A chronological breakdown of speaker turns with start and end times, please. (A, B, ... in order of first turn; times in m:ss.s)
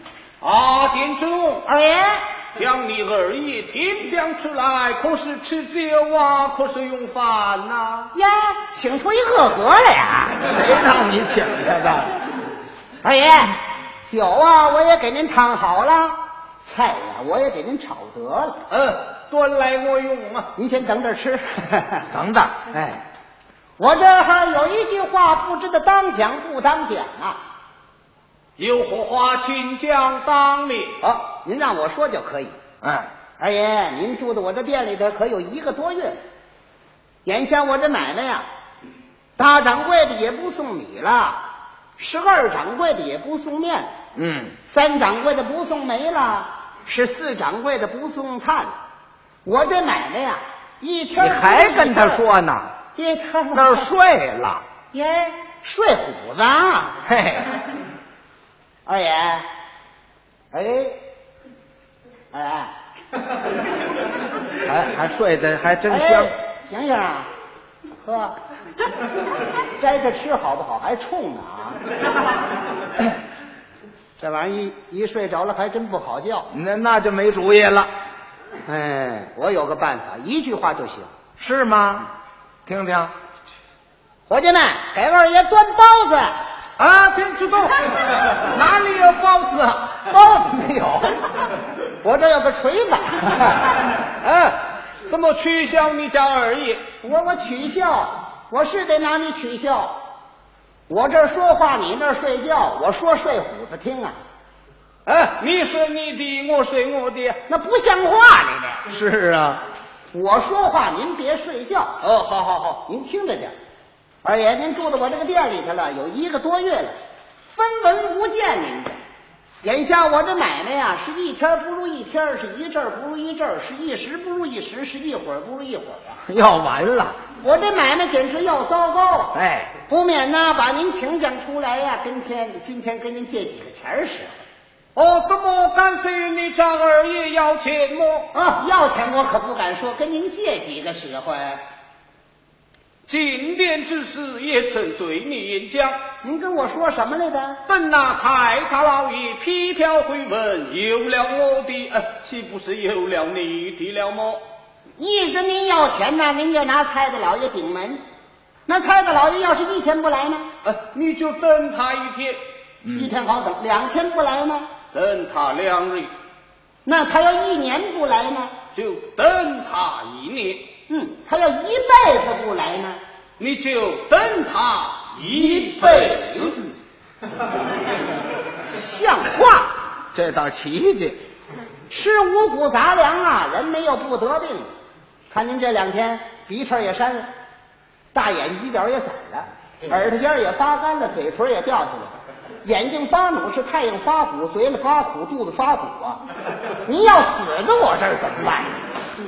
0:00.4-0:01.6 A
0:01.6-0:02.2 B
0:02.5-0:08.1 A
0:08.1-0:10.5 B
0:10.4-0:12.1 C
0:13.0-0:18.6 B
0:18.7-0:20.5 A
0:20.6-0:22.1 B
0:22.1-0:22.7 C
0:23.8-0:27.4 B
0:28.6-0:30.9 A
0:31.0-0:32.5 B
0:32.8-0:33.1 C
0:33.4-0:36.2 B
0:37.2-0:38.4 B
0:39.4-0:41.4 B
0:42.0-0:43.9 B
0:44.2-0:44.6 C
0:44.6-0:48.7 B
0:49.4-0:52.2 B
0:51.2-0:52.7 C
0:52.9-0:53.9 B
0:53.5-0:54.6 C
0:54.9-0:57.0 B
0:57.0-0:57.5 C
0:58.8-0:59.4 B
1:00.5-1:01.0 B
1:02.3-1:02.7 B
1:04.6-1:06.3 C
1:05.9-1:07.3 B
1:08.0-1:08.3 B
1:09.8-1:11.8 B
1:14.2-1:16.5 B
1:16.5-1:17.9 C
1:18.6-1:21.1 B
1:21.4-1:22.1 C
1:22.6-1:23.1 C
1:24.3-1:26.3 B
1:26.8-1:30.0 A
1:30.1-1:31.2 B
1:32.0-1:33.8 B
1:34.2-1:36.9 A
1:37.0-1:40.0 B
1:40.9-1:44.2 B
1:45.0-1:47.4 A
1:47.5-1:48.8 B
1:48.9-1:49.6 C
1:50.1-1:52.0 B
1:52.0-1:52.8 A
1:52.8-1:53.5 B
1:54.2-1:56.9 B
1:57.5-1:59.0 B
1:59.6-2:06.2 B
2:06.3-2:07.2 C
2:07.4-2:14.3 B
2:09.3-2:09.7 C
2:14.9-2:18.3 A
2:18.3-2:21.6 B
2:23.1-2:26.0 A
2:26.2-2:27.6 B
2:27.6-2:34.4 A
2:35.0-2:38.0 B
2:38.7-2:40.5 B
2:40.6-2:42.4 A
2:42.8-2:43.1 C
2:42.9-2:44.7 B
2:44.9-2:46.1 A
2:46.8-2:48.5 B
2:48.7-2:50.7 A
2:50.9-2:53.0 B
2:53.4-2:56.6 A
2:55.3-2:56.7 B
2:58.7-2:59.8 B
3:00.1-3:01.2 C
3:01.9-3:04.7 B
3:05.3-3:07.3 B
3:08.1-3:12.1 B
3:12.6-3:16.2 B
3:16.8-3:18.8 B